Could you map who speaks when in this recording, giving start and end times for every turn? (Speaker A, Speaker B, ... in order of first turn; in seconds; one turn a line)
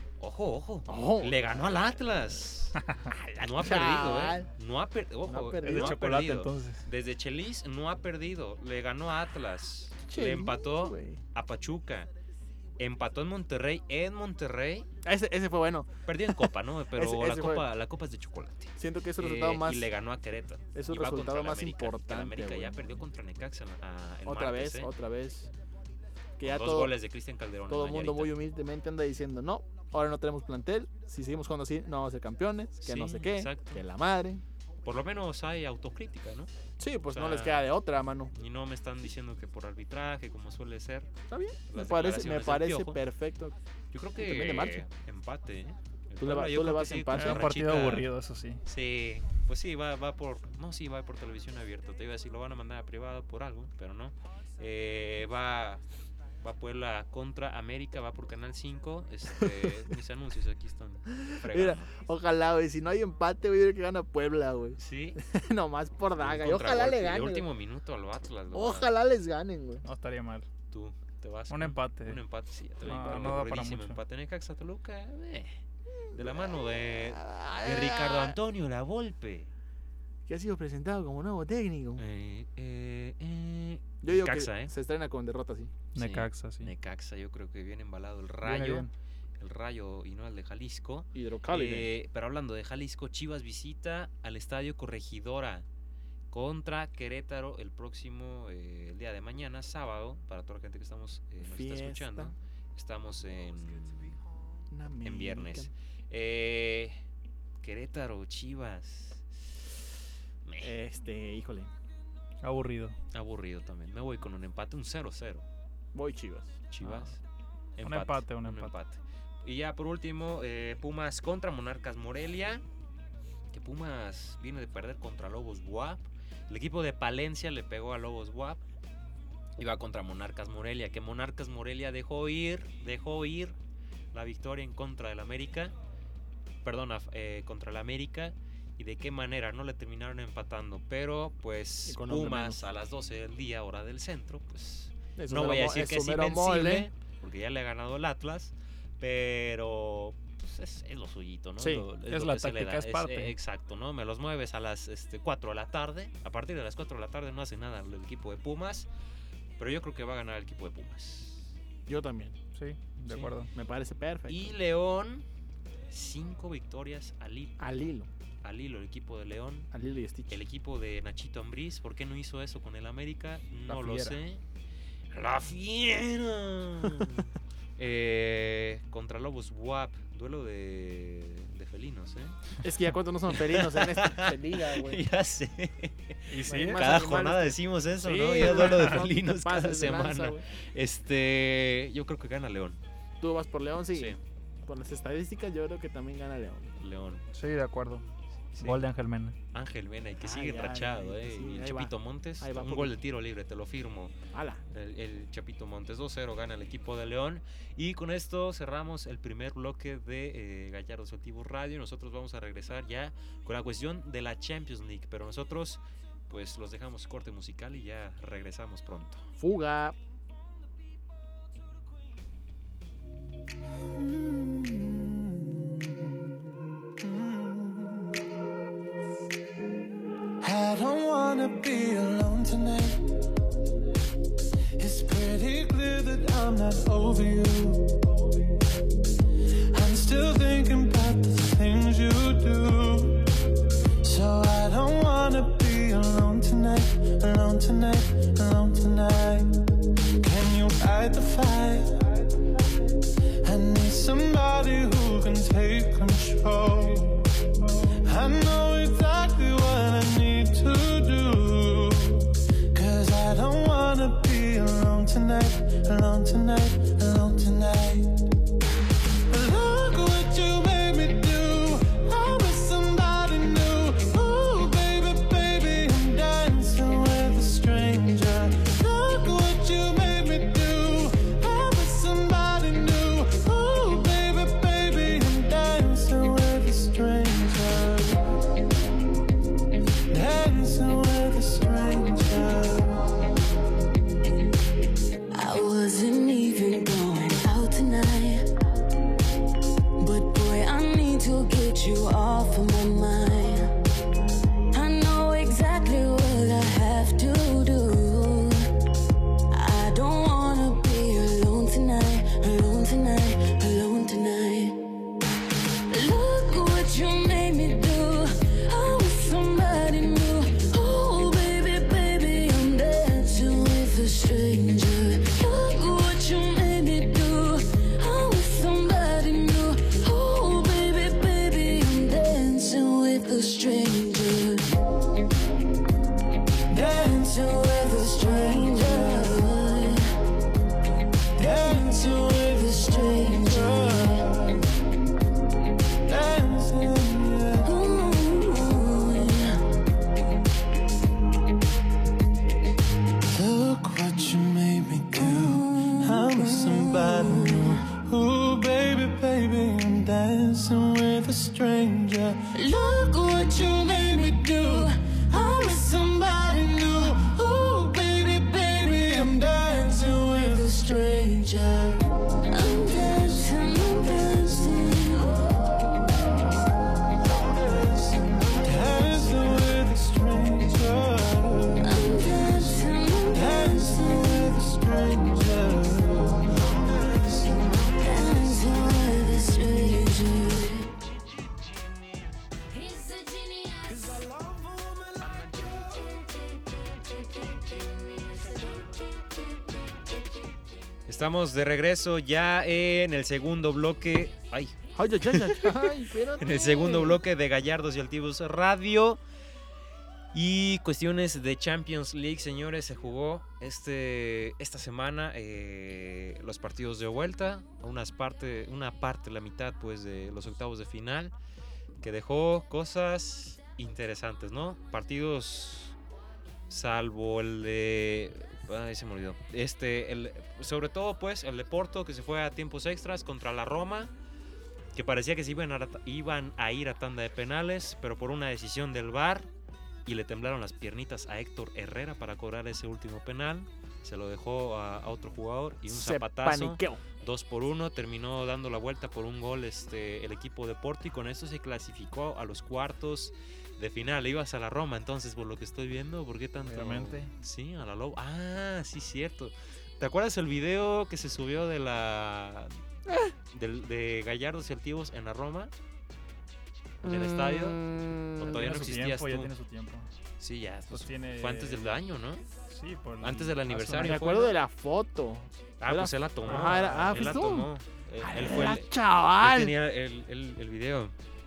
Speaker A: 0.2-2.8
Speaker B: 0.9-1.4
Speaker B: 3.1-4.5
Speaker A: 3.4-12.1
Speaker B: 5.2-6.0
Speaker C: 5.6-6.8
Speaker B: 10.0-11.2
Speaker A: 12.8-14.9
Speaker B: 15.0-17.7
Speaker A: 16.1-24.9
Speaker B: 18.8-19.9
Speaker B: 20.7-22.8
Speaker B: 24.2-25.5
Speaker B: 26.4-27.0
Speaker A: 26.4-28.4
Speaker B: 27.7-34.4
Speaker A: 32.8-33.8
Speaker A: 34.8-36.5
Speaker B: 36.8-38.3
Speaker A: 37.1-37.6
Speaker A: 38.3-41.1
Speaker B: 41.3-43.5
Speaker A: 41.7-43.0
Speaker A: 43.9-48.1
Speaker B: 44.2-44.9
Speaker B: 46.2-47.5
Speaker C: 47.1-48.6
Speaker A: 48.6-55.8
Speaker A: 56.4-61.9
Speaker B: 61.1-67.5
Speaker A: 64.8-65.2
Speaker A: 66.2-68.9
Speaker B: 68.5-69.8
Speaker C: 69.8-70.5
Speaker A: 70.7-75.6
Speaker C: 71.5-72.2
Speaker C: 72.8-74.0
Speaker B: 76.0-78.4
Speaker A: 76.1-79.5
Speaker B: 80.3-82.0
Speaker A: 82.0-84.7
Speaker B: 84.0-85.7
Speaker C: 85.9-86.7
Speaker A: 86.0-88.9
Speaker C: 88.4-88.9
Speaker A: 89.4-95.7
Speaker B: 91.1-91.9
Speaker A: 96.3-104.2
Speaker B: 101.4-102.3
Speaker B: 104.7-105.7
Speaker A: 105.0-107.0
Speaker A: 107.6-109.4
Speaker A: 110.5-110.7
Speaker B: 110.6-111.7
Speaker C: 112.4-113.0
Speaker A: 113.1-115.5
Speaker B: 115.9-117.0
Speaker A: 116.7-117.2
Speaker A: 117.8-122.7
Speaker C: 117.8-118.7
Speaker A: 123.5-128.6
Speaker A: 129.6-133.6
Speaker A: 134.1-135.8
Speaker A: 136.6-158.9
Speaker B: 141.9-142.6
Speaker B: 145.2-146.9
Speaker B: 151.6-151.9
Speaker C: 152.1-153.3
Speaker A: 159.6-161.5
Speaker B: 161.9-162.4
Speaker C: 162.6-163.5
Speaker A: 163.1-163.4
Speaker B: 163.5-164.6
Speaker A: 164.3-165.3
Speaker A: 165.9-167.6
Speaker B: 167.6-168.1
Speaker A: 168.4-169.7
Speaker B: 169.7-170.4
Speaker A: 170.3-174.4
Speaker C: 173.7-174.1
Speaker A: 175.1-182.4
Speaker B: 182.6-185.0
Speaker A: 183.3-192.8
Speaker C: 186.3-186.8
Speaker B: 186.4-190.4
Speaker B: 193.2-196.8
Speaker A: 193.9-194.2
Speaker A: 196.8-197.2
Speaker C: 197.3-198.1
Speaker A: 198.5-198.9
Speaker C: 198.6-199.4
Speaker A: 199.5-204.2
Speaker B: 200.2-203.0
Speaker B: 204.3-204.6
Speaker A: 204.7-219.2
Speaker B: 219.4-220.0
Speaker D: 227.3-227.8
Speaker D: 230.4-233.1
Speaker D: 234.8-238.0
Speaker D: 239.7-243.3
Speaker D: 244.0-249.5
Speaker D: 250.2-252.1
Speaker D: 253.4-257.3
Speaker D: 258.0-268.1
Speaker D: 269.3-288.2
Speaker D: 290.1-293.1
Speaker E: 295.3-298.5
Speaker E: 300.0-303.8
Speaker E: 304.7-308.7
Speaker E: 309.5-314.8
Speaker E: 315.9-334.7
Speaker D: 336.7-339.3
Speaker E: 336.8-340.1
Speaker E: 341.4-344.3
Speaker D: 341.4-342.3
Speaker D: 343.5-344.6
Speaker D: 346.1-347.7
Speaker E: 347.6-349.6
Speaker D: 353.3-362.4
Speaker E: 355.1-357.9
Speaker E: 362.5-367.3
Speaker D: 364.1-364.9
Speaker D: 365.5-370.8
Speaker E: 368.6-369.4
Speaker E: 370.1-375.4
Speaker D: 377.4-381.8
Speaker E: 381.8-384.6
Speaker D: 383.5-388.5
Speaker E: 388.0-390.9
Speaker E: 392.8-394.0
Speaker D: 393.9-396.2
Speaker A: 401.1-409.2
Speaker B: 404.9-407.2
Speaker A: 410.3-421.4
Speaker A: 422.0-426.0
Speaker A: 426.7-434.1
Speaker A: 434.9-439.5
Speaker A: 440.1-462.8
Speaker B: 445.9-447.0
Speaker C: 456.7-457.3
Speaker A: 463.5-465.7
Speaker B: 467.0-468.6
Speaker A: 467.0-469.5
Speaker C: 468.4-470.1
Speaker A: 470.4-472.4
Speaker C: 470.9-472.0
Speaker C: 472.7-474.4
Speaker A: 473.2-474.6
Speaker B: 474.0-479.8
Speaker A: 475.8-481.2
Speaker C: 476.5-477.4